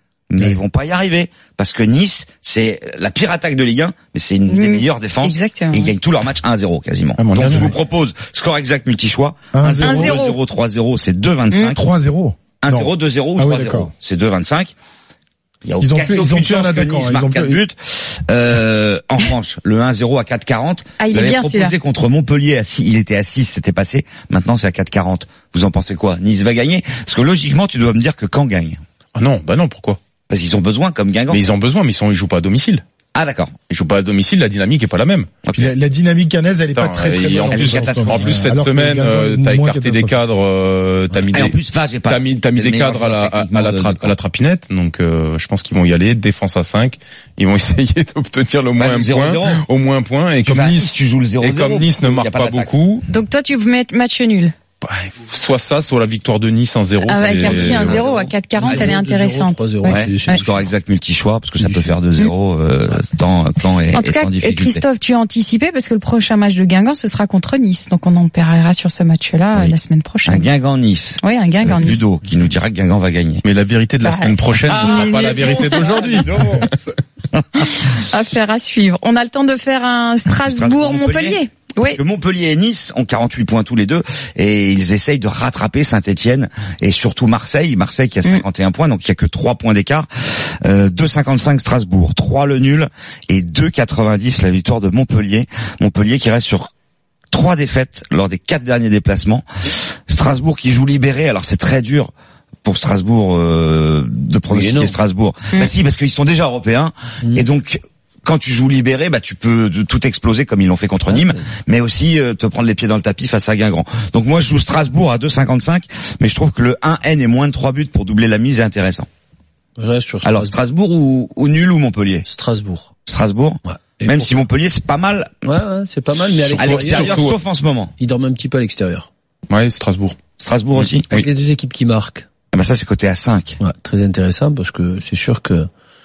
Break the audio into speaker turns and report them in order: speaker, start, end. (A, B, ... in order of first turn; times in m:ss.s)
0:00.3-0:11.8 A
0:04.5-0:05.9 B
0:07.2-0:07.8 C
0:09.5-0:10.2 D
0:09.8-0:10.4 B
0:11.7-0:13.9 D
0:12.6-0:14.7 A
0:15.6-0:28.8 A
0:15.8-0:17.6 D
0:21.0-0:21.8 B
0:29.2-0:30.0 C
0:30.3-0:31.4 A
0:31.3-0:32.8 C
0:33.1-0:33.5 A
0:33.7-0:35.3 C
0:35.5-0:35.7 A
0:35.6-0:40.2 D
0:36.8-0:53.0 C
0:37.5-0:38.4 A
0:41.3-0:44.2 A
0:48.8-0:49.6 A
0:50.4-0:52.8 A
0:53.1-0:54.5 B
0:54.8-0:58.1 C
0:57.0-1:00.4 B
0:57.4-0:58.8 A
0:57.5-1:00.7 E
0:59.9-1:04.8 A
1:01.6-1:02.0 E
1:03.9-1:10.5 B
1:09.6-1:13.4 A
1:11.2-1:12.0 B
1:13.4-1:16.5 C
1:14.0-1:16.1 B
1:14.7-1:17.4 A
1:17.6-1:22.0 B
1:20.4-1:21.4 A
1:22.0-1:36.7 A
1:37.3-1:42.1 A
1:42.6-1:59.1 A
1:44.5-1:45.0 E
1:51.1-1:51.4 E
1:59.8-2:00.6 E
2:00.2-2:02.3 A
2:02.2-2:02.9 E
2:03.1-2:05.4 A
2:03.6-2:04.4 E
2:05.4-2:07.3 E
2:06.4-2:07.4 C
2:06.6-2:07.9 A
2:08.0-2:09.1 E
2:09.5-2:10.2 C
2:10.4-2:11.1 A
2:10.8-2:11.3 C
2:11.1-2:12.3 E
2:12.5-2:13.6 A
2:13.6-2:15.7 E